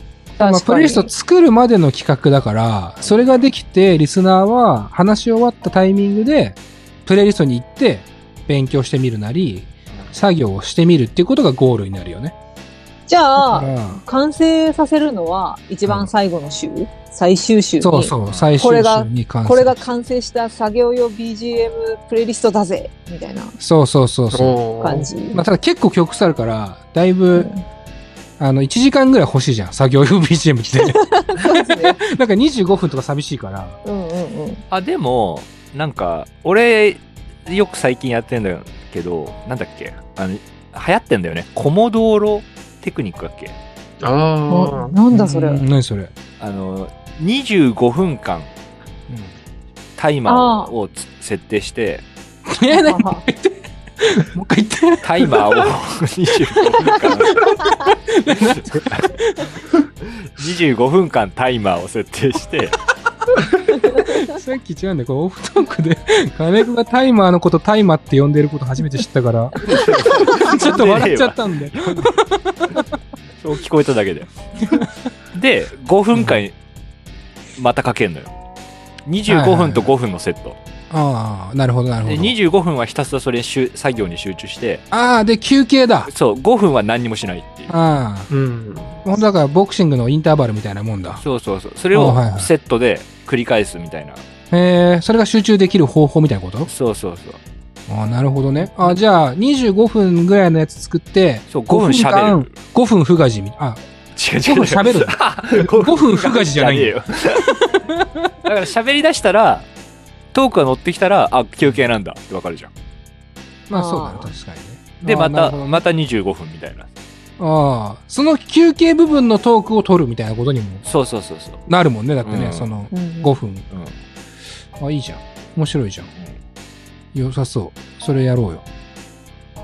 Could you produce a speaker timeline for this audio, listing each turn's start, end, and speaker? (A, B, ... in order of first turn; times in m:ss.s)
0:00.4-0:01.1 A
0:00.4-0:12.3 B
0:03.0-0:03.4 C
0:13.1-0:23.5 A
0:13.4-0:14.0 B
0:15.8-0:16.1 B
0:17.8-0:19.8 B
0:18.2-0:18.6 C
0:23.6-0:24.6 B
0:24.3-0:25.1 D
0:24.8-0:25.4 A
0:25.3-0:27.5 B
0:27.3-0:27.6 A
0:28.4-0:33.8 B
0:31.1-0:32.0 A
0:33.8-0:34.6 A
0:34.7-0:43.6 C
0:44.0-0:44.9 D
0:44.5-0:45.6 A
0:45.1-0:46.1 B
0:46.4-0:48.5 C
0:49.1-0:49.3 B
0:50.0-0:52.0 C
0:50.3-0:50.7 A
0:52.5-0:55.7 B
0:52.7-0:53.2 A
0:55.0-0:57.5 C
0:56.7-0:59.5 B
0:58.4-0:59.1 C
1:00.0-1:02.8 C
1:04.2-1:12.8 B
1:09.6-1:12.1 C
1:13.4-1:14.3 C
1:15.3-1:16.5 C
1:17.6-1:18.3 C
1:19.0-1:20.6 C
1:19.3-1:19.9 B
1:20.9-1:22.4 B
1:22.0-1:24.8 C
1:24.9-1:26.1 B
1:26.0-1:27.7 C
1:27.7-1:28.3 B
1:28.3-1:29.0 D
1:29.0-1:31.2 B
1:31.2-1:34.2 C
1:31.9-1:32.5 B
1:34.5-1:36.7 B
1:36.7-1:37.4 C
1:37.9-1:43.8 B
1:41.5-1:42.5 C
1:44.1-1:47.5 C
1:44.4-1:47.0 B
1:47.5-1:48.3 B
1:48.4-1:49.7 C
1:50.3-1:52.7 C
1:53.7-1:55.8 B
1:53.7-1:54.3 A
1:55.0-1:56.9 C
1:57.4-2:00.8 B
2:00.8-2:01.6 C
2:01.6-2:03.7 B
2:02.2-2:02.7 C
2:02.9-2:03.4 A
2:03.7-2:04.0 C
2:04.8-2:06.1 B
2:07.1-2:08.6 B